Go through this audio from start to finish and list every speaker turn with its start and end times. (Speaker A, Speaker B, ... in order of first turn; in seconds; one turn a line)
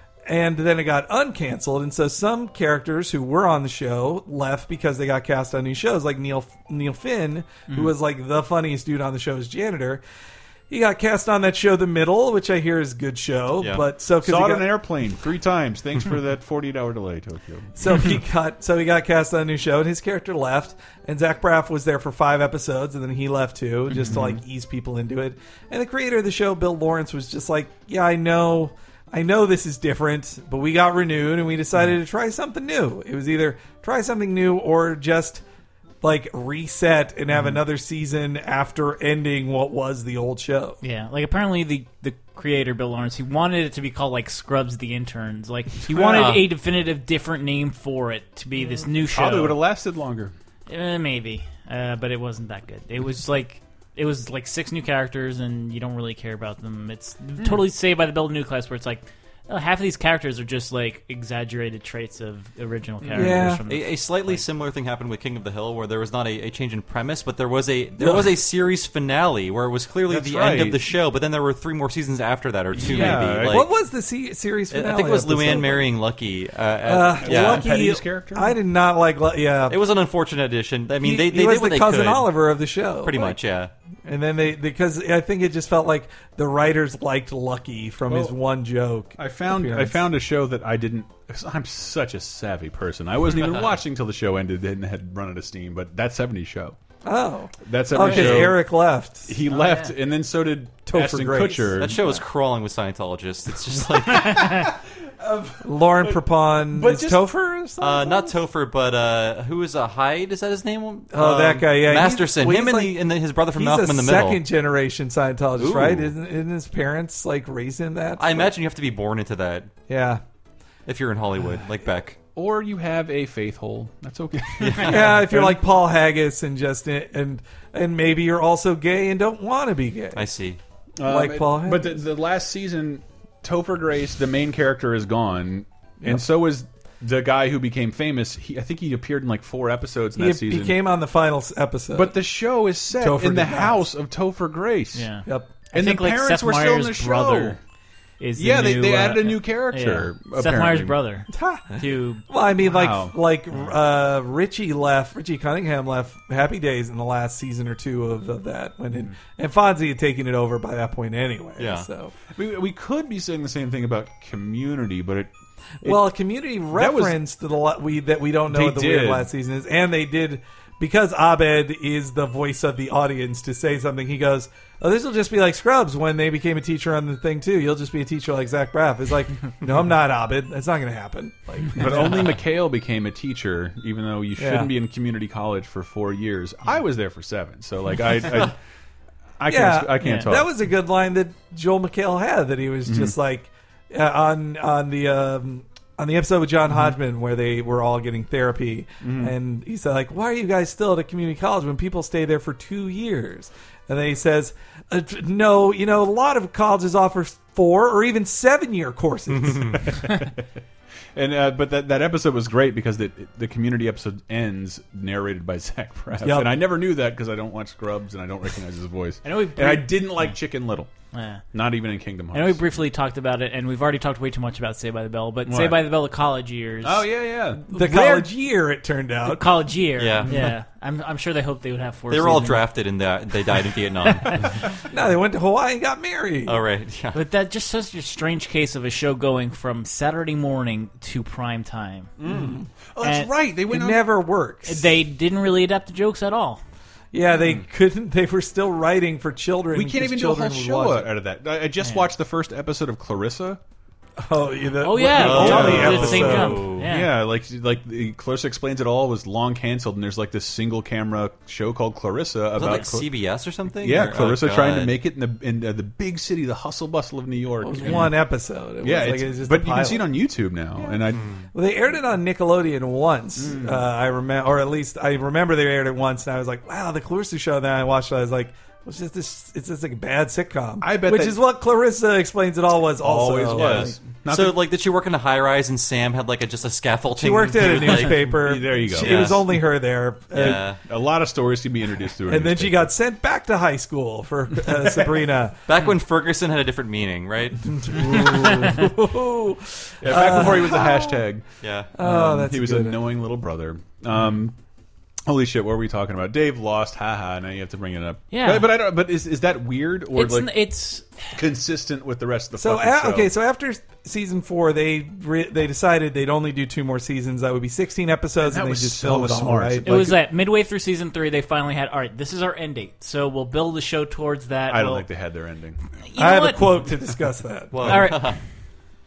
Speaker A: 0.3-10.0
Speaker A: 10.7-14.7
Speaker B: 13.6-13.8
Speaker C: 14.2-17.7
Speaker A: 17.8-35.4
Speaker C: 24.1-24.4
Speaker A: 36.0-40.8
Speaker D: 40.8-49.6
Speaker B: 45.9-46.5
Speaker C: 48.7-50.3
Speaker D: 50.7-64.4
Speaker A: 63.1-63.6
Speaker B: 63.6-73.7
Speaker A: 68.0-68.3
Speaker C: 70.1-70.8
Speaker C: 72.7-73.6
Speaker A: 73.0-75.9
Speaker B: 74.7-77.8
Speaker A: 76.8-79.8
Speaker C: 77.2-78.5
Speaker B: 79.7-82.3
Speaker A: 81.0-83.4
Speaker B: 83.0-83.7
Speaker A: 84.0-90.1
Speaker C: 88.1-88.4
Speaker C: 89.2-96.8
Speaker A: 97.0-99.4
Speaker C: 97.6-98.6
Speaker C: 99.2-102.1
Speaker D: 99.6-99.8
Speaker A: 100.8-101.9
Speaker B: 101.8-104.7
Speaker C: 104.1-106.2
Speaker A: 105.6-108.3
Speaker C: 106.7-107.3
Speaker B: 107.8-114.4
Speaker A: 111.1-118.5
Speaker B: 115.6-116.1
Speaker B: 118.2-119.7
Speaker A: 119.9-120.2
Speaker B: 120.8-122.2
Speaker C: 122.3-125.6
Speaker B: 124.6-125.0
Speaker A: 124.8-130.2
Speaker B: 130.1-130.6
Speaker C: 131.0-140.8
Speaker A: 131.0-132.0
Speaker A: 140.2-142.2
Speaker C: 141.9-145.1
Speaker A: 142.9-143.8
Speaker D: 144.9-147.6
Speaker A: 145.2-145.5
Speaker C: 145.7-147.6
Speaker D: 148.2-152.3
Speaker C: 148.3-151.0
Speaker A: 151.3-151.7
Speaker A: 152.3-162.1
Speaker C: 152.6-153.1
Speaker B: 161.6-161.9
Speaker C: 162.3-165.3
Speaker A: 165.8-182.3
Speaker C: 166.7-167.2
Speaker C: 168.5-169.3
Speaker C: 181.7-188.5
Speaker A: 184.4-184.7
Speaker C: 189.4-190.5
Speaker A: 189.5-209.9
Speaker C: 192.8-193.2
Speaker C: 199.0-199.3
Speaker B: 209.4-209.7
Speaker C: 209.8-210.3
Speaker C: 211.1-220.9
Speaker A: 216.2-216.6
Speaker D: 219.2-220.3
Speaker D: 221.1-221.4
Speaker C: 221.5-222.6
Speaker D: 222.3-227.1
Speaker C: 225.4-225.9
Speaker C: 226.8-228.2
Speaker A: 227.7-229.4
Speaker D: 227.8-228.2
Speaker D: 229.2-232.6
Speaker B: 230.0-230.4
Speaker C: 230.2-230.5
Speaker B: 232.1-234.6
Speaker A: 234.9-236.6
Speaker B: 236.4-237.2
Speaker D: 237.1-242.1
Speaker C: 242.2-244.1
Speaker A: 242.2-242.7
Speaker D: 243.0-243.3
Speaker A: 243.7-244.9
Speaker D: 244.7-246.6
Speaker A: 247.1-251.1
Speaker C: 249.7-253.6
Speaker D: 251.8-252.1
Speaker A: 254.2-256.6
Speaker D: 254.8-257.1
Speaker B: 255.1-256.9
Speaker C: 255.3-263.1
Speaker B: 262.5-264.9
Speaker C: 263.8-268.1
Speaker A: 267.6-270.1
Speaker C: 268.8-271.3
Speaker B: 271.1-271.4
Speaker A: 271.5-284.0
Speaker C: 273.4-273.9
Speaker C: 280.8-281.4
Speaker C: 283.0-284.6
Speaker B: 283.6-289.5
Speaker A: 287.1-290.6
Speaker C: 287.9-289.4
Speaker B: 290.3-290.8
Speaker C: 290.4-292.9
Speaker A: 292.3-295.6
Speaker B: 295.7-298.2
Speaker A: 297.7-301.1
Speaker C: 300.0-301.5
Speaker B: 301.6-301.9
Speaker A: 301.9-303.0
Speaker C: 302.0-304.6
Speaker C: 305.2-310.5
Speaker D: 308.3-308.8
Speaker D: 310.1-311.3
Speaker C: 311.3-313.3
Speaker A: 312.6-320.0
Speaker C: 318.4-320.2
Speaker D: 319.9-325.1
Speaker C: 324.7-325.8
Speaker D: 326.1-326.9
Speaker A: 326.1-328.0
Speaker B: 327.7-328.4
Speaker D: 327.8-328.3